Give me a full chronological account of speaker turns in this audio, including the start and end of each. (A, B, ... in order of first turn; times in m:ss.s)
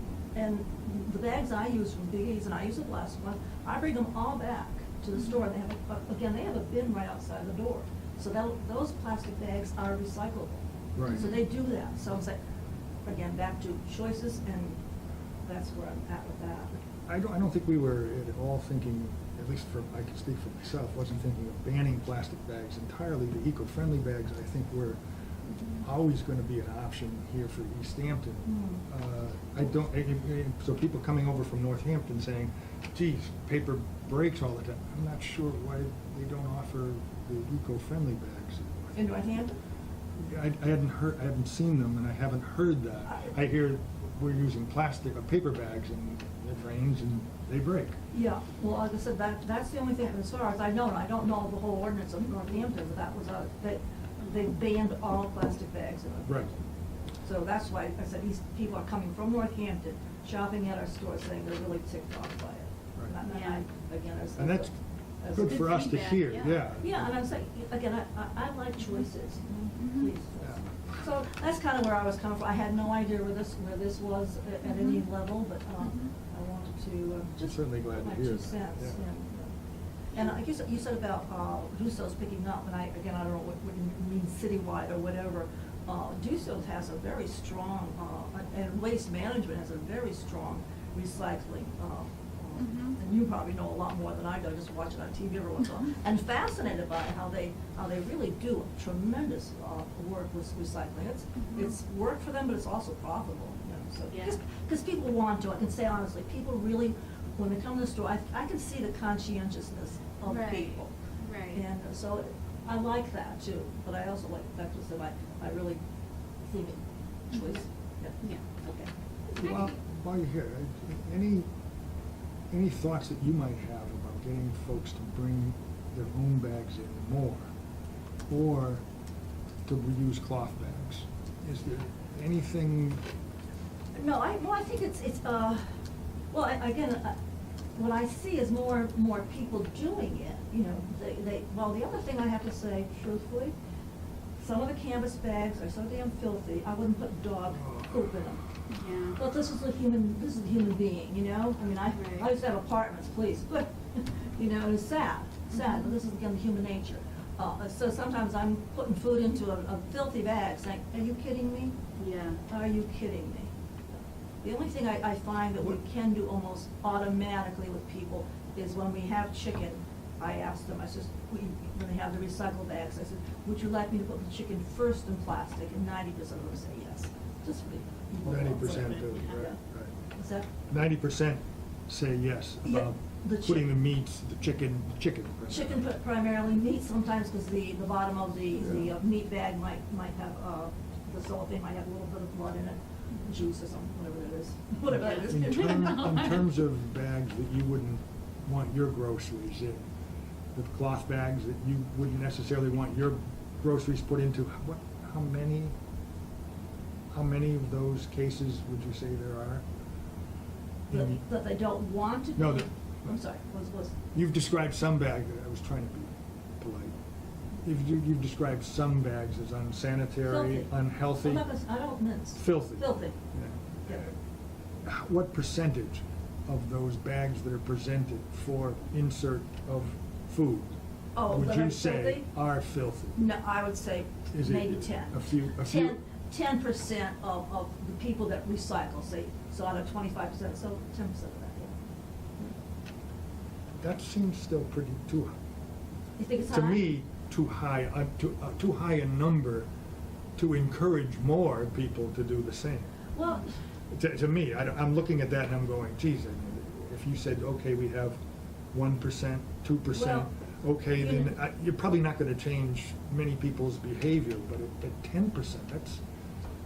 0:00.3-0:12.4 A
0:11.0-0:11.3 B
0:13.1-0:14.8 A
0:15.4-0:16.7 A
0:17.1-0:25.0 B
0:25.8-0:39.0 B
0:28.5-0:28.8 A
0:39.0-0:39.6 A
0:40.2-0:48.0 B
0:48.1-0:56.6 A
0:57.2-1:05.8 A
1:03.3-1:03.6 C
1:04.4-1:04.7 B
1:05.3-1:07.1 B
1:05.4-1:06.6 C
1:06.8-1:19.5 A
1:14.7-1:15.0 C
1:17.4-1:19.0 B
1:20.1-1:50.9 A
1:32.6-1:33.0 C
1:41.4-1:41.7 C
1:50.2-1:51.6 C
1:51.5-1:55.8 A
1:56.5-1:58.9 A
1:59.3-2:01.5 B
2:02.5-2:07.5 B
2:08.3-2:08.8 B
2:09.7-2:13.0 B
2:13.9-2:15.6 A
2:16.3-2:17.2 A
2:17.8-2:23.6 A
2:24.4-2:28.4 A
2:28.7-2:29.2 C
2:29.2-2:41.8 A
2:32.0-2:32.3 C
2:42.0-2:42.4 C
2:42.5-2:43.5 A
2:44.4-2:59.6 A
2:58.2-2:59.9 B
3:00.2-3:00.5 A
3:00.6-3:05.8 B
3:02.6-3:03.7 A
3:05.5-3:16.2 A
3:08.6-3:08.9 B
3:15.2-3:19.8 B
3:20.6-3:25.7 B
3:27.1-3:29.6 B
3:30.9-3:31.2 B
3:30.9-3:34.0 A
3:32.4-3:33.1 B
3:34.1-3:36.9 B
3:37.6-3:41.5 B
3:40.3-3:43.2 A
3:42.4-3:44.1 B
3:44.8-3:50.7 B
3:51.2-3:52.3 A
3:51.3-3:53.2 B
3:53.2-4:01.8 A
3:54.3-3:56.0 B
4:03.8-4:05.4 B
4:06.2-4:06.8 A
4:06.5-4:09.7 B
4:10.4-4:12.9 B
4:13.1-4:13.5 A
4:13.9-4:18.2 B
4:18.7-4:26.0 B
4:19.9-4:20.3 A
4:21.0-4:21.3 A